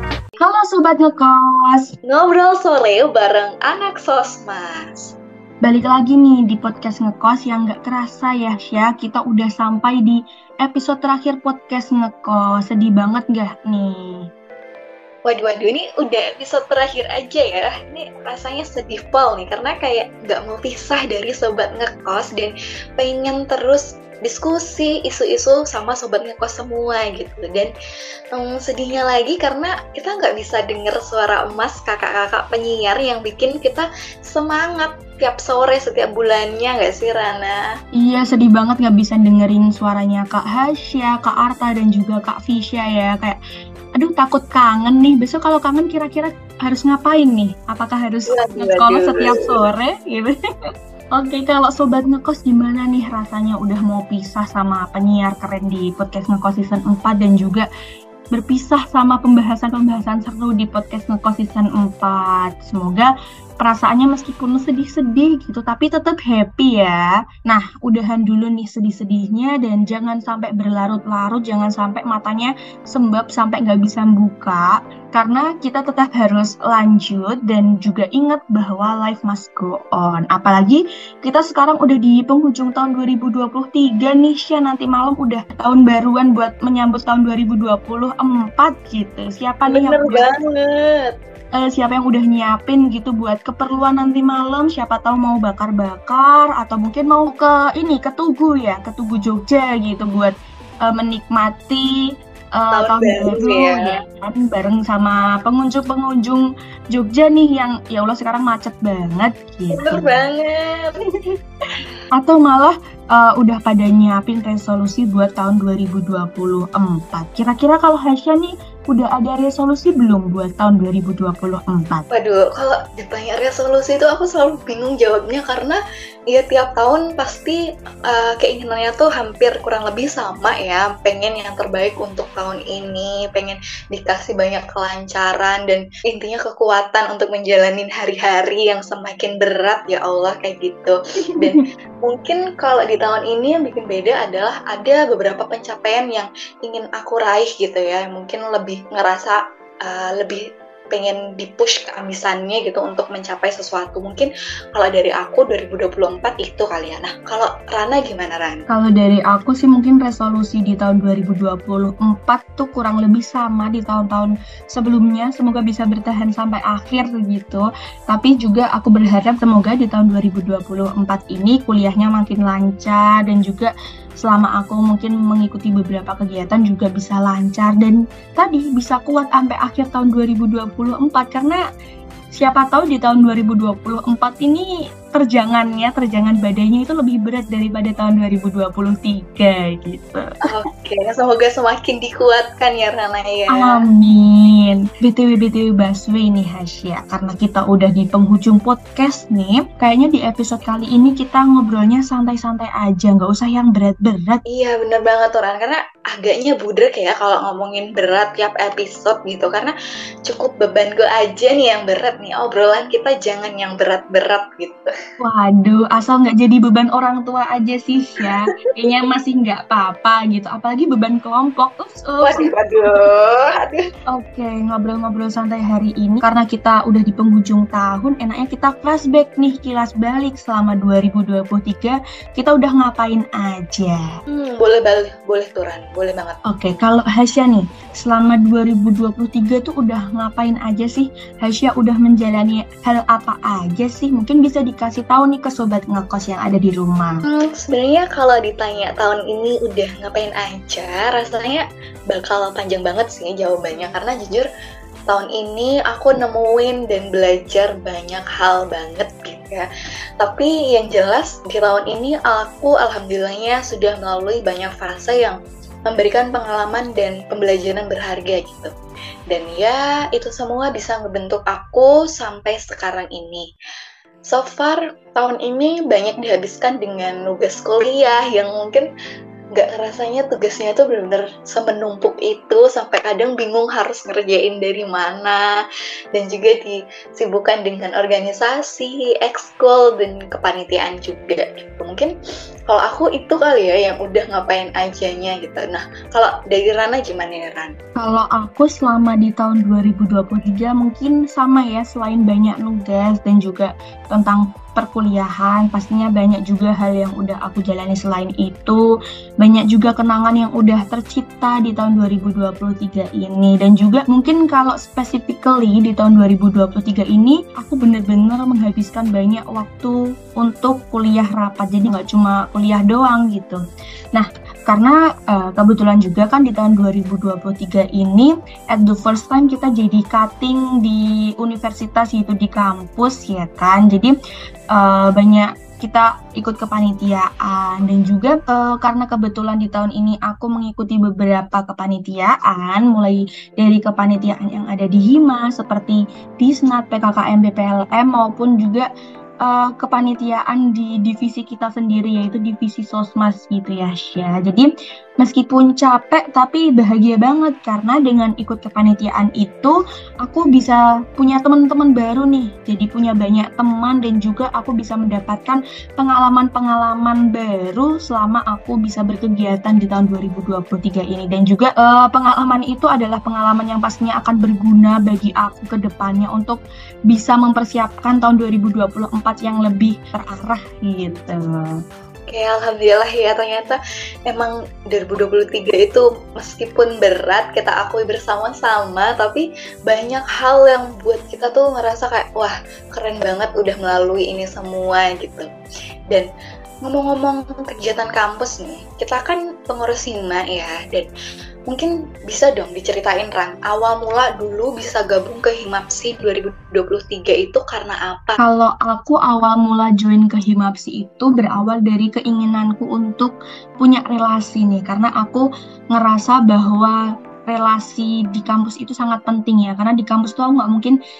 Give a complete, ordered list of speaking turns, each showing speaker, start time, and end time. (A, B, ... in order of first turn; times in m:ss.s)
0:00.4-0:01.9 A
0:02.0-0:05.1 B
0:05.6-0:14.3 A
0:15.2-0:27.7 B
0:28.3-0:37.6 B
0:38.0-0:43.4 A
0:44.0-0:50.3 A
0:48.3-0:49.6 B
0:51.1-0:57.7 A
0:58.3-1:30.3 A
1:29.7-1:31.1 B
1:31.6-1:42.0 A
1:42.6-1:50.1 A
1:42.7-1:44.0 B
1:49.7-1:51.0 B
1:52.2-2:02.0 A
2:02.1-2:38.6 B
2:21.2-2:21.6 A
2:38.7-3:01.6 A
3:02.4-3:10.4 A
3:10.5-3:13.8 B
3:13.5-3:24.4 A
3:24.5-3:29.7 B
3:30.2-3:34.9 B
3:35.2-3:42.5 A
3:42.2-3:43.8 B
3:44.1-3:54.0 A
3:54.3-3:56.4 B
3:56.5-4:07.2 A
4:07.3-4:14.5 B
4:15.1-4:19.7 B
4:20.2-4:28.7 B
4:29.3-4:33.5 B
4:34.3-4:38.9 B
4:39.6-4:45.5 B
4:46.1-4:52.1 B
4:52.7-4:57.7 B
4:58.0-5:08.8 A
5:09.4-5:23.6 A
5:24.1-5:34.1 A
5:34.7-5:48.9 A
5:49.4-6:21.7 A
6:22.3-6:35.5 B
6:36.8-6:41.1 B
6:41.7-6:48.4 B
6:48.4-7:00.9 A